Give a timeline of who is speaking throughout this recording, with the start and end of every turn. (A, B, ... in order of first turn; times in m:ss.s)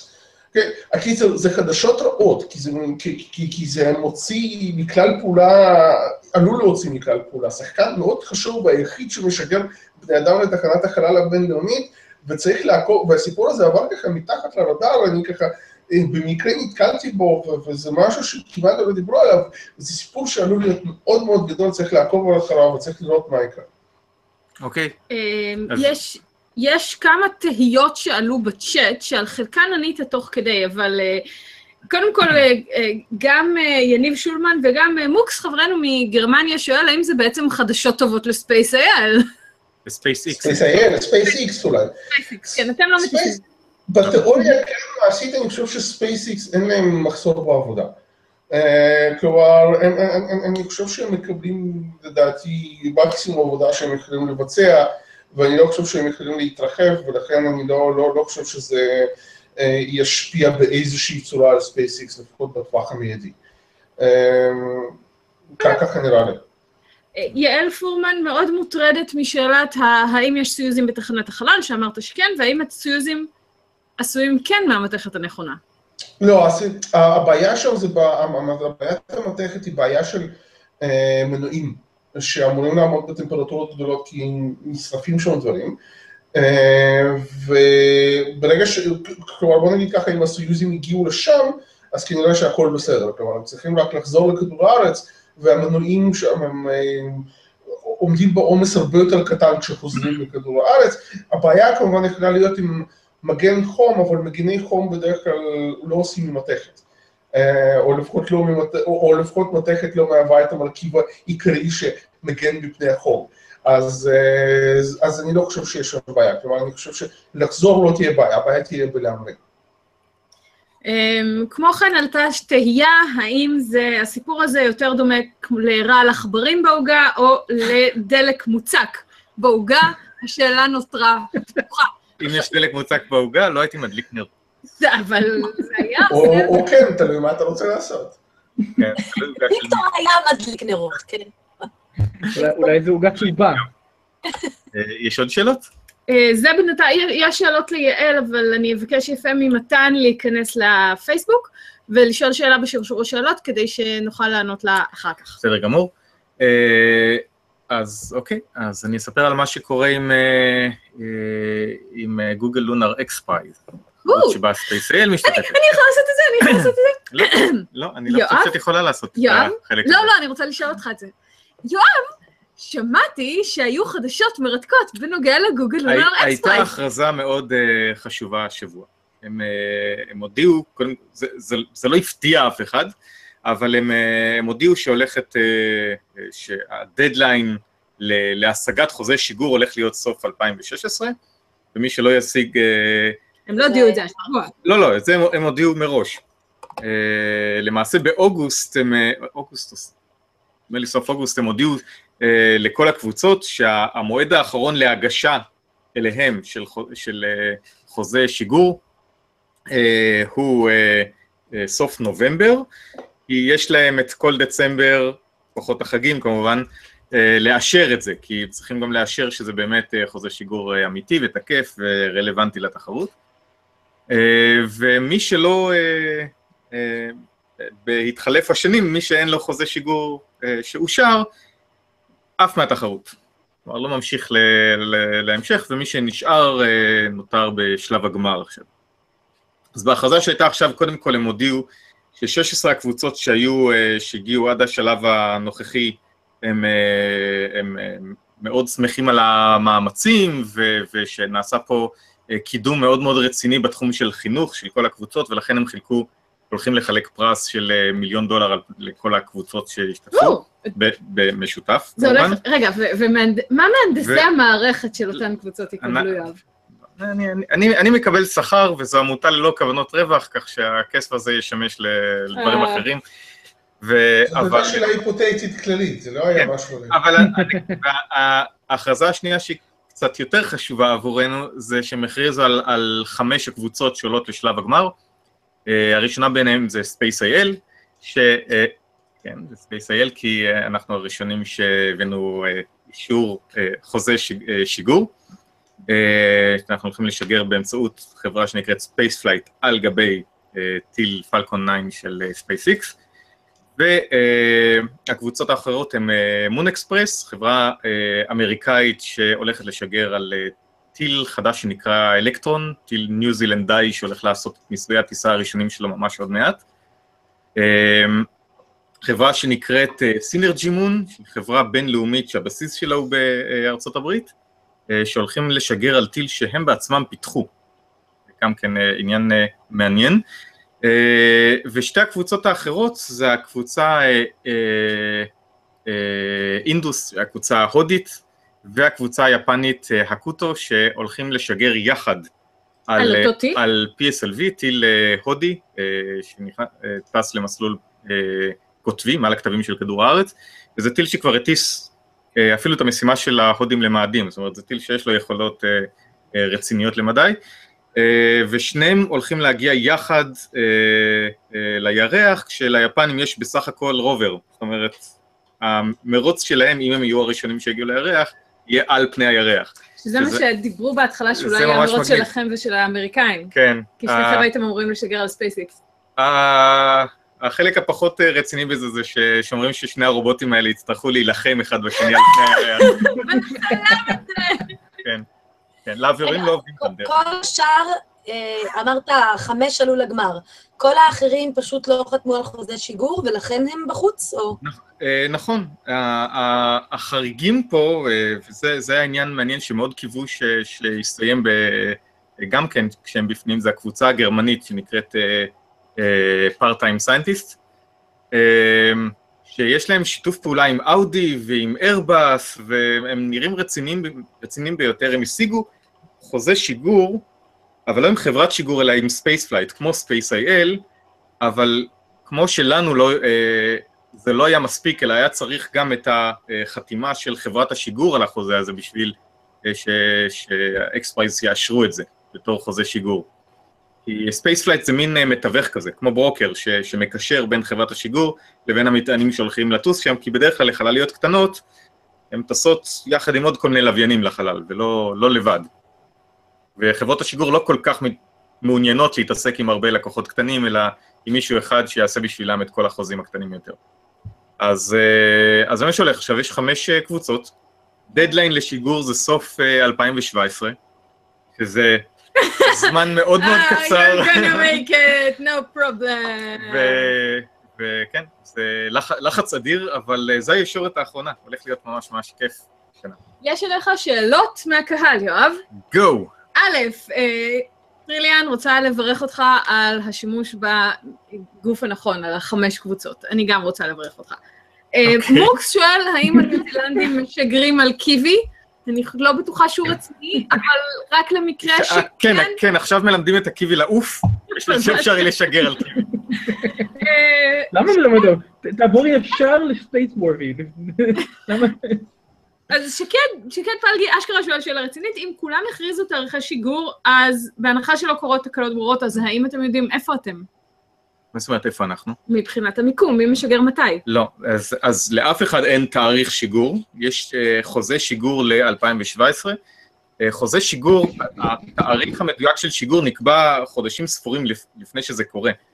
0:00.5-0:23.7 A
0:24.6-0:25.0 B
0:25.1-0:31.3 C
0:25.7-0:26.0 B
0:31.9-0:39.3 C
0:39.9-0:40.8 B
0:40.3-0:41.9 A
0:42.1-0:43.4 C
0:43.0-0:43.4 A
0:43.9-0:48.0 A
0:48.5-1:03.4 A
1:04.0-1:05.0 A
1:05.6-1:06.4 A
1:07.2-1:13.3 C
1:14.0-1:15.6 C
1:16.2-1:25.8 A
1:26.3-1:59.4 A
2:00.8-2:12.4 C
2:12.2-2:14.3 B
2:14.8-2:16.6 C
2:16.1-2:18.2 A
2:18.8-2:19.8 B
2:19.5-2:21.3 D
2:22.2-2:23.7 E
2:22.4-2:22.7 D
2:24.7-2:25.7 B
2:26.1-2:35.4 C
2:35.4-2:45.6 B
2:44.1-2:44.4 C
2:45.2-2:48.6 C
2:46.4-2:50.1 B
2:49.2-2:51.1 C
2:51.6-2:56.7 C
2:55.9-3:02.9 B
3:03.4-3:11.2 B
3:11.7-3:13.2 B
3:13.5-3:14.5 C
3:13.6-3:14.0 D
3:14.6-3:16.2 B
3:16.8-3:19.9 B
3:20.7-3:28.8 B
3:29.7-3:32.7 B
3:33.3-3:43.1 B
3:44.1-3:51.3 B
3:52.4-3:53.1 B
3:53.6-3:58.7 B
3:59.8-4:22.4 B
4:20.1-4:20.7 C
4:22.0-4:26.4 C
4:24.0-4:24.3 B
4:25.8-4:26.3 B
4:26.9-4:33.0 B
4:32.4-4:32.9 C
4:33.8-4:34.9 B
4:34.3-4:37.0 A
4:36.4-4:45.0 B
4:37.2-4:37.8 E
4:45.7-4:55.1 B
4:55.9-5:03.0 B
5:03.8-5:16.6 B
5:17.6-5:18.3 B
5:19.0-5:24.3 B
5:24.9-5:27.5 B
5:28.3-5:30.2 B
5:30.8-5:35.3 B
5:35.9-5:42.3 B
5:42.9-5:57.4 B
5:43.0-5:43.6 C
5:58.0-6:05.0 B
6:05.6-6:10.4 B
6:10.0-6:15.8 C
6:11.4-6:12.3 B
6:13.5-6:14.5 B
6:16.2-6:23.3 B
6:22.8-6:24.7 C
6:23.2-6:24.2 E
6:25.9-6:27.2 B
6:26.2-6:34.6 D
6:34.6-6:47.6 B
6:48.3-6:55.7 B
6:56.2-6:57.2 B
6:57.9-7:00.8 B
7:01.4-7:13.3 B
7:14.1-7:21.6 B
7:22.3-7:25.7 B
7:26.8-7:33.8 B
7:34.6-7:37.5 B
7:38.1-7:40.8 B
7:41.6-7:42.1 B
7:42.4-7:47.1 C
7:42.6-7:44.8 B
7:46.6-7:53.2 B
7:53.4-7:55.6 C
7:55.8-7:56.3 B
7:56.6-8:04.4 C
8:05.0-8:12.6 C
8:05.0-8:05.5 B
8:11.6-8:16.0 B
8:14.6-8:15.3 C
8:16.2-8:16.9 E
8:16.7-8:18.3 C
8:17.7-8:22.1 E
8:22.7-8:30.5 C
8:31.3-8:32.2 B
8:32.3-8:34.0 C
8:34.1-8:39.6 B
8:40.2-8:45.6 B